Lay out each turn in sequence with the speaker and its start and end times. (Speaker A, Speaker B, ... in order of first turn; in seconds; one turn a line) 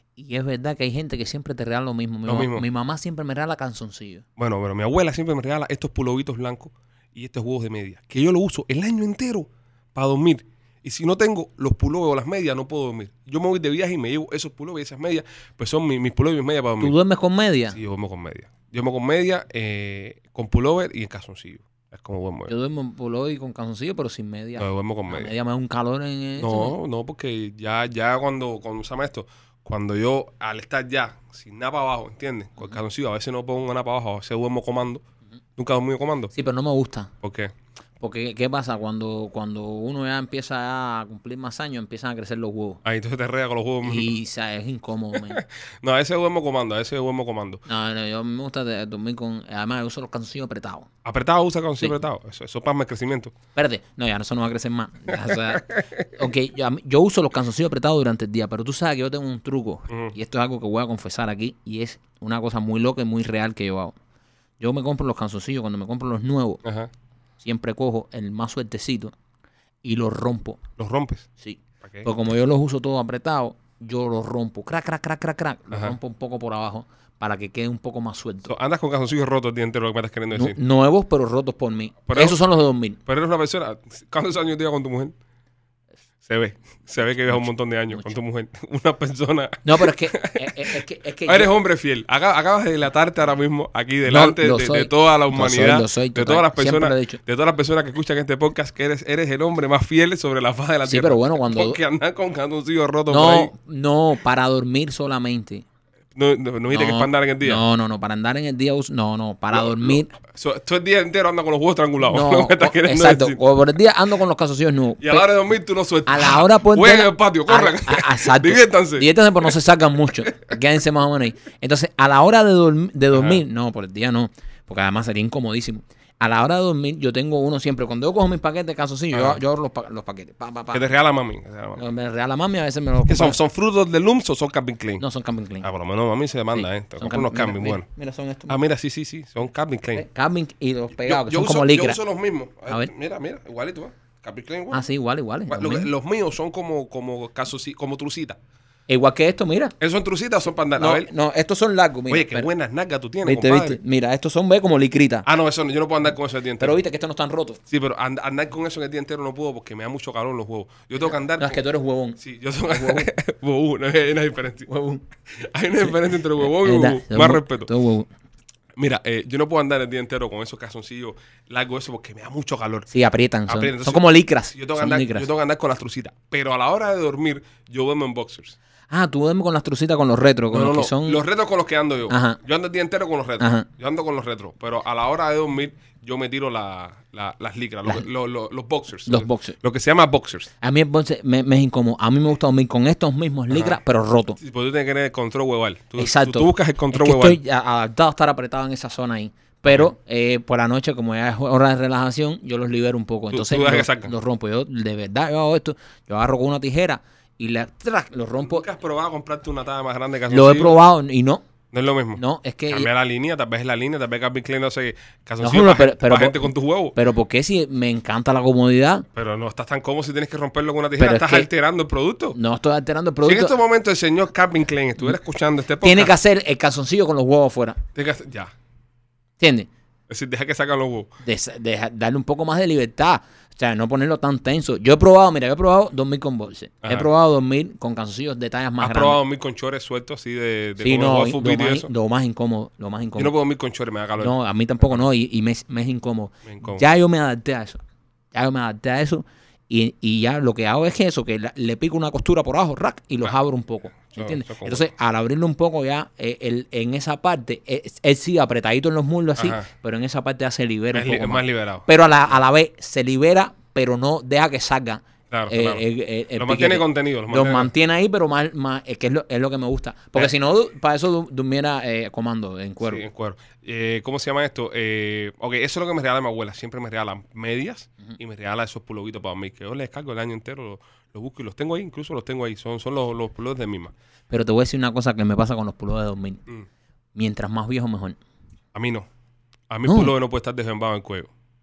Speaker A: 0.2-4.2
Speaker B: 2.2-2.6
Speaker B: 4.4-16.9
Speaker A: 16.8-17.8
Speaker B: 17.7-22.5
Speaker A: 22.5-26.7
Speaker B: 24.6-25.3
Speaker B: 26.4-35.0
Speaker B: 35.6-36.3
Speaker A: 36.3-37.1
Speaker B: 37.2-37.5
Speaker A: 38.0-42.8
Speaker B: 42.8-44.1
Speaker A: 43.8-45.4
Speaker B: 45.1-47.6
Speaker A: 47.6-50.9
Speaker B: 51.0-53.3
Speaker A: 53.5-63.9
Speaker B: 55.1-56.1
Speaker B: 59.9-60.1
Speaker A: 64.6-66.6
Speaker B: 66.6-66.9
Speaker A: 67.4-69.1
Speaker A: 69.8-70.6
Speaker B: 70.8-71.3
Speaker A: 71.4-78.5
Speaker B: 71.8-72.1
Speaker B: 75.7-76.0
Speaker B: 78.5-80.6
Speaker A: 80.3-83.0
Speaker B: 82.1-82.4
Speaker B: 83.1-85.1
Speaker B: 86.2-103.5
Speaker A: 89.6-91.5
Speaker A: 94.0-97.2
Speaker A: 100.8-101.8
Speaker A: 103.1-105.6
Speaker B: 106.1-107.6
Speaker A: 106.7-110.1
Speaker B: 109.5-113.4
Speaker A: 112.0-115.3
Speaker B: 115.0-119.5
Speaker A: 116.1-130.8
Speaker B: 123.1-123.4
Speaker B: 129.1-129.4
Speaker B: 130.7-131.8
Speaker A: 131.8-133.4
Speaker B: 133.1-135.0
Speaker A: 135.0-135.7
Speaker B: 135.6-137.8
Speaker A: 136.5-138.6
Speaker B: 138.5-140.1
Speaker A: 139.9-142.0
Speaker B: 141.0-144.8
Speaker A: 144.7-145.9
Speaker B: 145.5-148.4
Speaker A: 148.9-149.8
Speaker B: 149.8-151.1
Speaker A: 150.8-152.5
Speaker B: 152.1-153.8
Speaker A: 153.2-155.2
Speaker B: 155.2-156.8
Speaker A: 156.6-157.6
Speaker B: 157.7-161.6
Speaker A: 161.4-163.1
Speaker B: 162.2-164.7
Speaker A: 164.7-165.0
Speaker B: 165.3-167.7
Speaker A: 165.8-168.1
Speaker B: 168.8-172.9
Speaker A: 172.9-175.3
Speaker B: 173.5-178.6
Speaker A: 178.9-181.2
Speaker B: 180.5-190.5
Speaker A: 182.1-182.4
Speaker A: 183.4-183.7
Speaker A: 189.1-189.6
Speaker A: 190.6-194.4
Speaker B: 193.5-193.8
Speaker B: 194.4-197.4
Speaker A: 196.0-208.7
Speaker B: 203.3-204.1
Speaker B: 208.4-210.8
Speaker A: 210.3-211.4
Speaker B: 211.7-216.9
Speaker A: 212.2-212.9
Speaker A: 215.4-219.0
Speaker B: 219.1-222.4
Speaker A: 221.0-221.5
Speaker A: 222.3-223.6
Speaker B: 223.2-226.1
Speaker A: 225.8-227.8
Speaker B: 227.9-228.5
Speaker A: 229.4-229.7
Speaker B: 230.1-231.1
Speaker A: 231.2-239.2
Speaker B: 236.8-237.1
Speaker B: 238.8-241.9
Speaker A: 240.8-243.3
Speaker B: 243.2-244.3
Speaker A: 244.2-247.8
Speaker B: 246.4-246.8
Speaker A: 248.3-273.0
Speaker B: 254.1-254.9
Speaker B: 259.4-259.7
Speaker B: 260.9-261.9
Speaker B: 265.3-265.8
Speaker B: 266.4-267.7
Speaker B: 272.8-283.9
Speaker A: 284.3-286.4
Speaker A: 287.1-288.2
Speaker B: 288.7-289.1
Speaker B: 289.7-291.3
Speaker A: 289.8-290.1